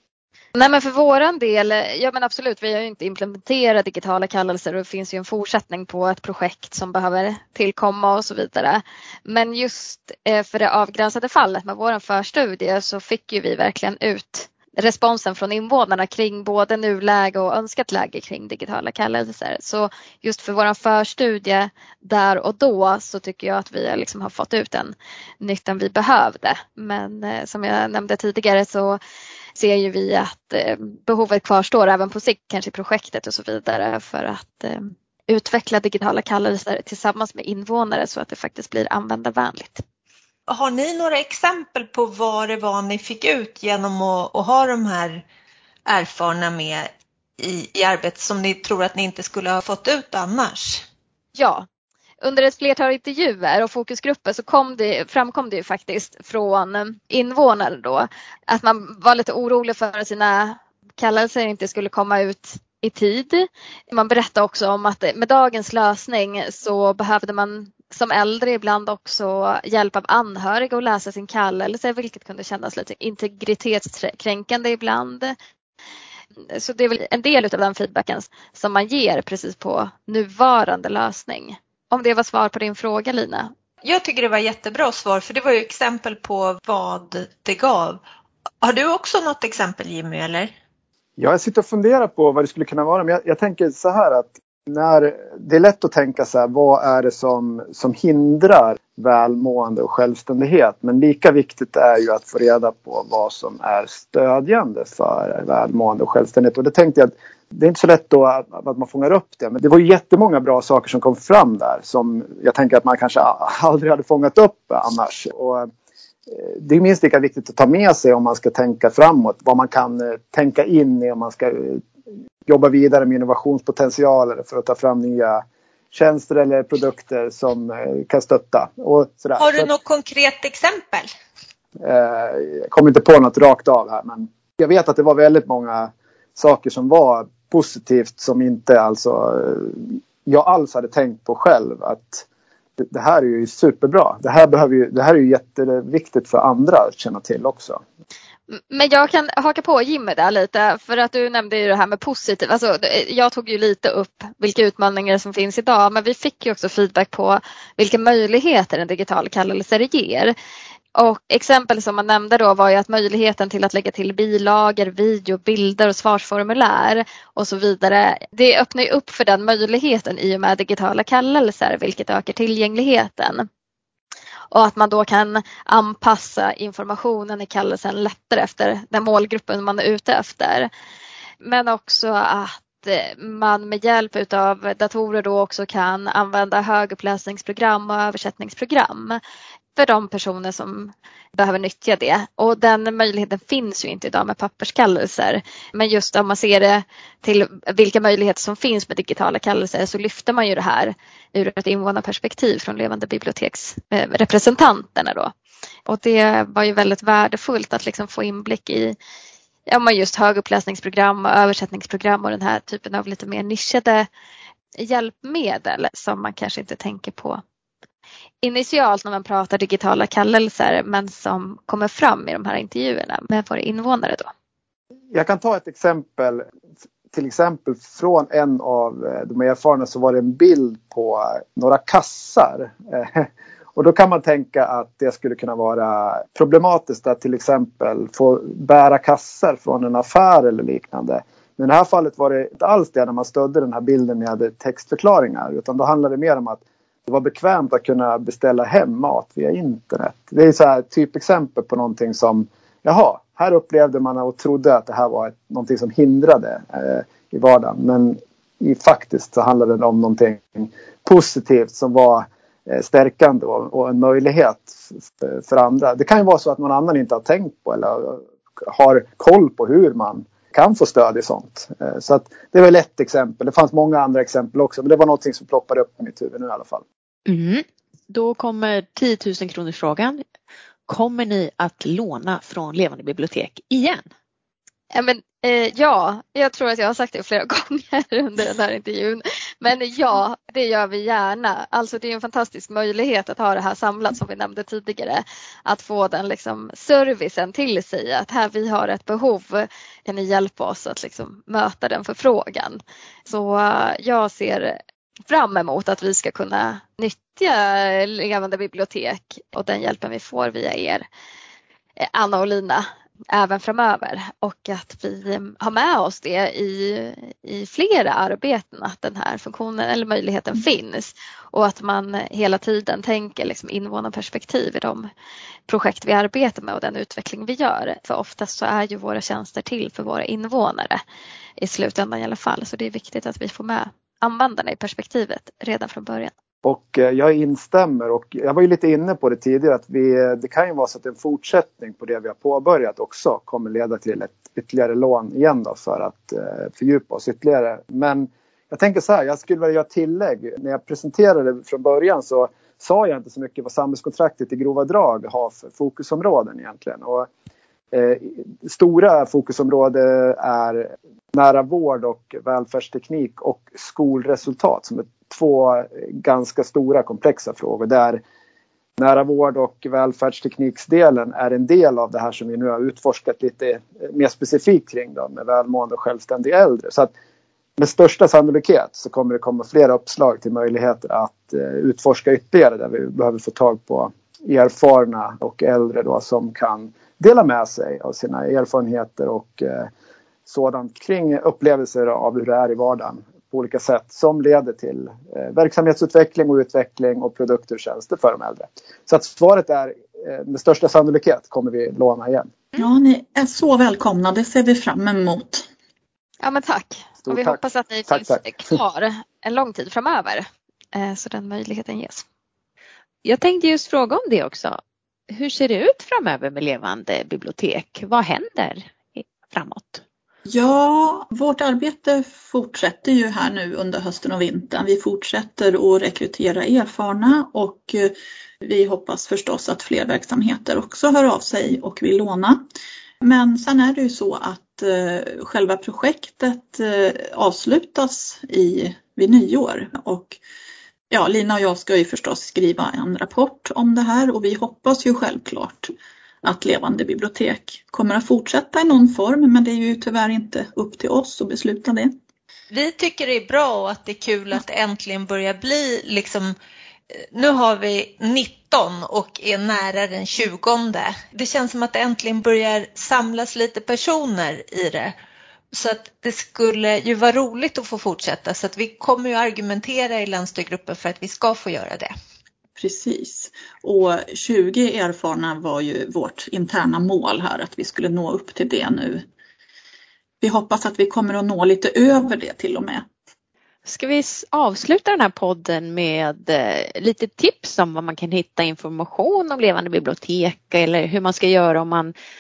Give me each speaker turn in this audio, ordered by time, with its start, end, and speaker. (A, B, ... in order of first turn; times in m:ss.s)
0:00.6-0:29.0 A
0:29.6-0:39.8 A
0:40.5-0:45.2 B
0:45.9-0:50.8 B
0:51.4-0:51.7 A
0:52.2-1:15.4 A
1:16.5-1:23.5 A
1:23.8-1:28.0 B
1:28.6-1:30.5 B
1:31.2-1:55.7 C
1:56.3-2:01.8 C
2:02.5-2:09.7 C
2:09.4-2:11.1 B
2:11.8-2:22.3 C
2:22.8-2:27.8 C
2:28.5-2:40.3 A
2:41.0-2:53.5 A
2:54.5-3:00.7 A
3:01.4-3:09.2 A
3:09.8-3:25.3 A
3:25.9-3:29.0 A
3:29.7-3:34.1 A
3:34.8-3:37.4 A
3:38.4-3:44.3 A
3:45.1-3:46.4 C
3:47.1-4:36.8 C
4:37.3-4:40.2 D
4:40.9-4:44.0 D
4:44.9-5:04.8 A
5:05.3-5:11.1 A
5:12.0-5:25.1 A
5:25.7-5:31.0 A
5:31.6-5:36.3 A
5:36.6-5:57.3 C
5:57.9-6:08.2 C
6:09.0-6:17.1 C
6:17.8-6:29.9 C
6:30.5-6:42.5 C
6:42.8-6:45.7 E
6:46.4-6:52.2 A
6:47.2-6:48.7 C
6:53.2-6:54.8 D
6:55.3-7:00.0 D
7:00.4-7:12.6 E
7:13.2-7:20.4 E
7:21.1-7:25.9 E
7:26.4-7:32.2 E
7:32.7-7:36.5 B
7:37.3-7:45.1 B
7:45.7-7:52.1 B
7:52.8-7:59.3 E
8:00.4-8:03.1 E
8:03.8-8:12.1 D